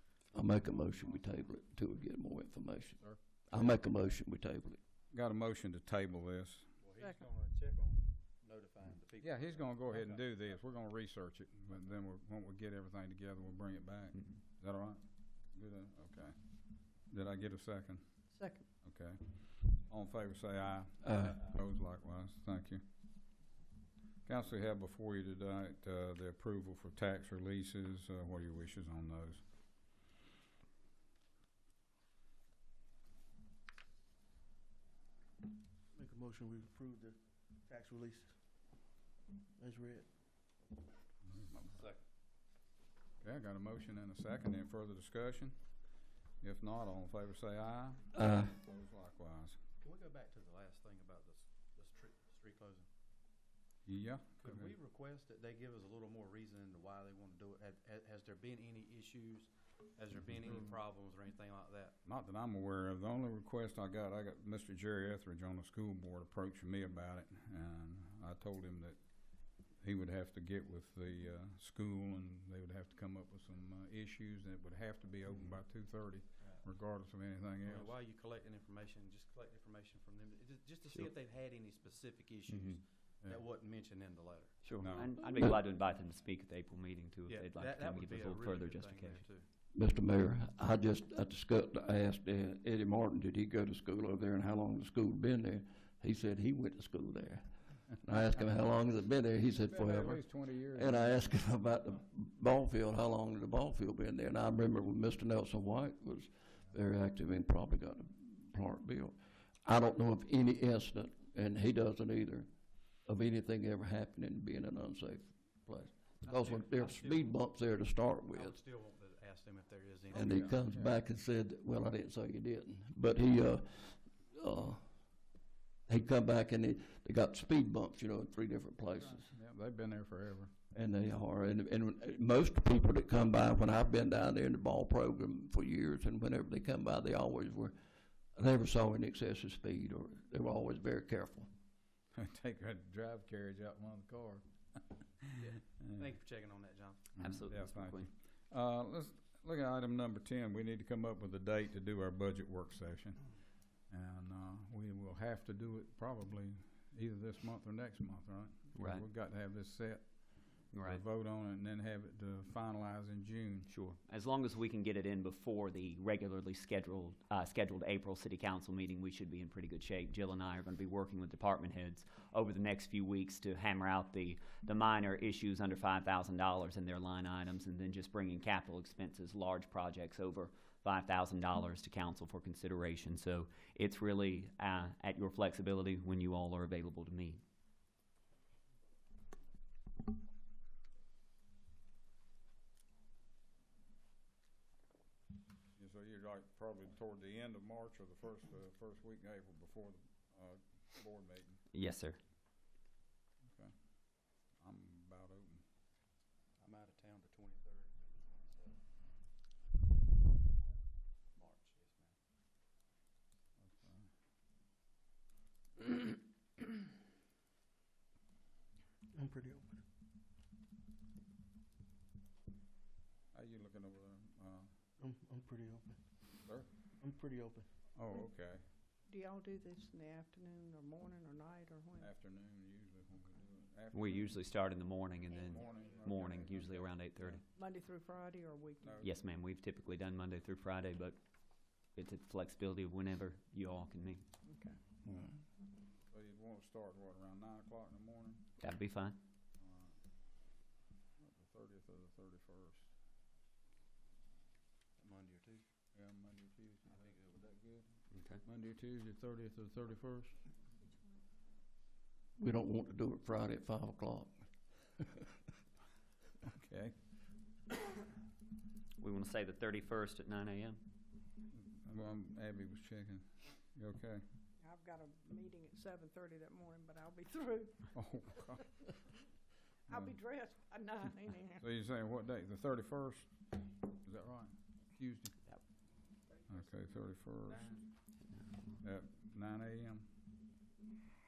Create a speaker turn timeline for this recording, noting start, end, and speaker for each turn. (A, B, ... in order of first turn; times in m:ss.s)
0:00.3-0:04.8 A
0:03.0-0:03.7 B
0:05.1-0:06.7 B
0:06.8-0:10.2 C
0:09.2-0:16.4 B
0:17.0-0:18.3 B
0:18.3-0:18.7 D
0:18.8-0:22.8 B
0:21.1-0:21.4 A
0:24.3-0:29.5 B
0:35.9-0:38.4 E
0:39.6-0:40.1 E
0:41.3-0:41.6 B
0:41.6-0:42.0 C
0:43.2-0:45.7 B
0:46.4-0:49.6 B
0:48.2-0:48.5 A
0:49.8-0:52.9 C
0:53.9-0:54.7 B
0:54.4-1:02.0 C
1:00.4-1:00.7 B
1:02.0-1:17.9 B
1:17.6-1:24.6 C
1:22.5-1:22.8 F
1:24.6-1:29.2 F
1:24.8-1:25.1 B
1:27.3-1:29.5 C
1:29.7-1:52.5 A
1:39.6-1:41.3 B
1:53.1-1:58.6 A
1:56.2-1:57.4 C
1:58.3-2:00.5 C
2:00.1-2:04.9 A
2:00.2-2:00.9 B
2:05.9-2:09.3 A
2:09.0-2:10.5 B
2:10.7-2:17.8 A
2:18.4-2:21.5 A
2:22.1-2:26.1 B
2:25.4-2:27.1 C
2:27.2-2:33.3 B
2:27.2-2:28.1 F
2:33.9-2:43.7 B
2:38.8-2:39.1 F
2:40.7-2:41.0 F
2:43.7-3:07.4 F
3:15.8-3:21.6 B
3:21.7-3:22.2 F
3:23.5-3:25.6 B
3:26.6-3:28.8 C
3:31.3-3:32.2 C
3:33.6-3:34.1 B
3:39.1-3:39.8 E
3:43.3-3:44.7 B
3:45.0-3:46.0 E
3:47.0-3:47.7 E
3:48.0-3:48.6 B
3:49.1-3:52.1 D
3:52.0-3:54.4 B
3:53.9-3:57.4 F
3:55.3-3:57.4 B
3:55.6-3:56.0 C
3:57.6-3:59.1 D
3:58.8-3:59.1 B
3:59.0-4:01.2 F
4:01.9-4:04.2 F
4:04.5-4:04.8 D
4:06.1-4:08.5 B
4:08.6-4:09.2 F
4:09.6-4:10.0 B
4:11.2-4:12.9 B
4:15.0-4:15.6 C
4:15.9-4:17.9 B
4:18.1-4:18.4 F
4:18.4-4:20.4 B
4:22.4-4:24.4 A
4:26.5-4:27.0 B
4:29.0-4:30.8 F
4:31.6-4:34.2 B
4:34.6-4:38.6 D
4:37.9-4:38.9 B
4:39.9-4:41.6 D
4:41.6-4:45.4 B
4:46.5-4:47.8 B
4:48.8-4:50.1 B